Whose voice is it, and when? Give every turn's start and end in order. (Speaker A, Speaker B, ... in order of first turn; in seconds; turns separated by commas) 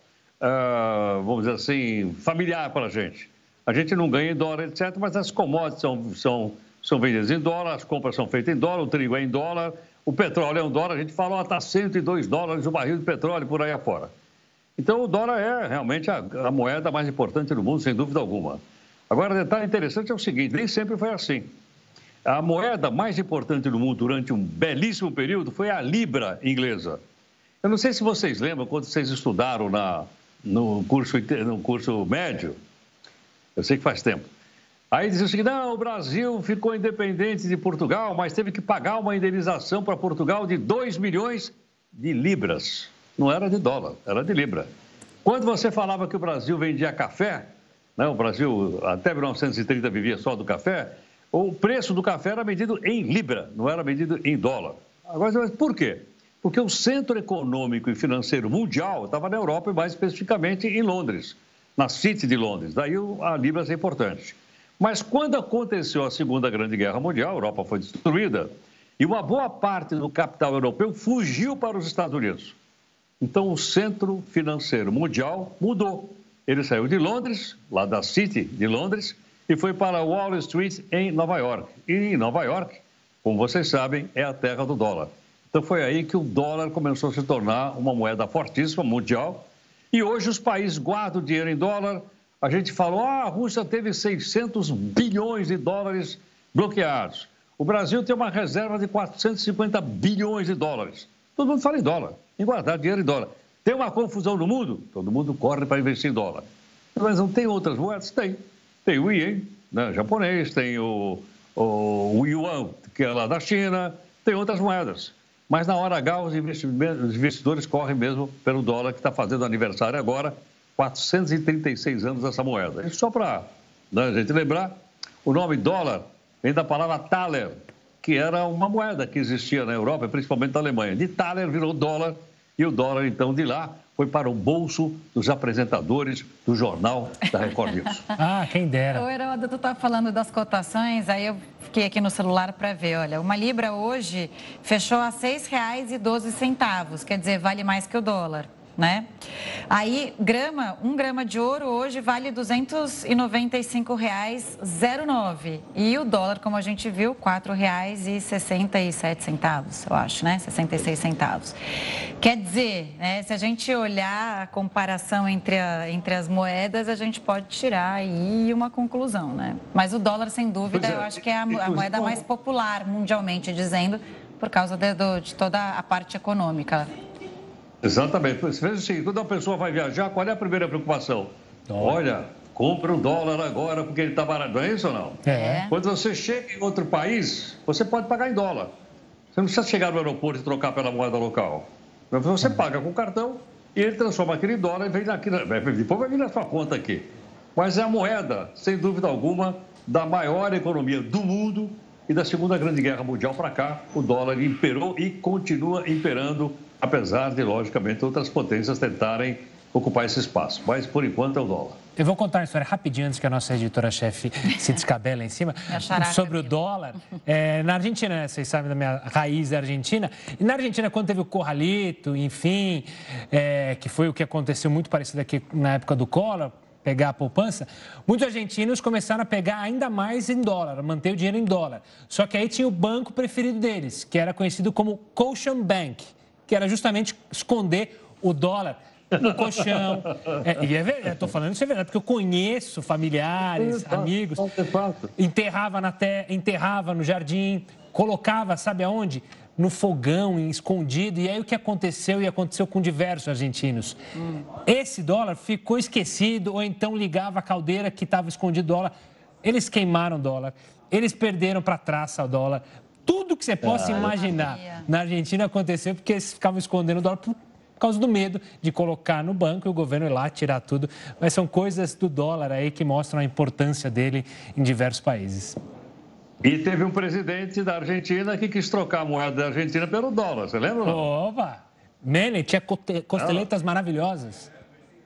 Speaker A: 0.4-14.1, Speaker A: 14.8-21.5, Speaker A: 22.2-27.0, Speaker A: 27.6-32.6, Speaker A: 33.6-34.3, Speaker A: 34.9-44.7, Speaker A: 45.2-72.5, Speaker A: 73.2-106.5, Speaker A: 107.0-138.1, Speaker B: 138.2-139.1, Speaker C: 138.9-149.1, Speaker C: 149.7-161.6, Speaker C: 162.2-176.9, Speaker A: 170.7-172.2, Speaker A: 177.8-188.7, Speaker B: 181.7-182.0, Speaker B: 185.3-185.6, Speaker C: 185.3-185.8, Speaker A: 189.3-211.8, Speaker B: 212.0-244.5, Speaker C: 215.7-216.5, Speaker A: 240.0-240.3, Speaker A: 243.6-245.1, Speaker B: 245.2-254.0, Speaker B: 254.6-275.6, Speaker A: 263.6-264.1, Speaker C: 264.1-264.9, Speaker A: 276.4-281.0, Speaker B: 280.8-284.5, Speaker A: 283.2-283.4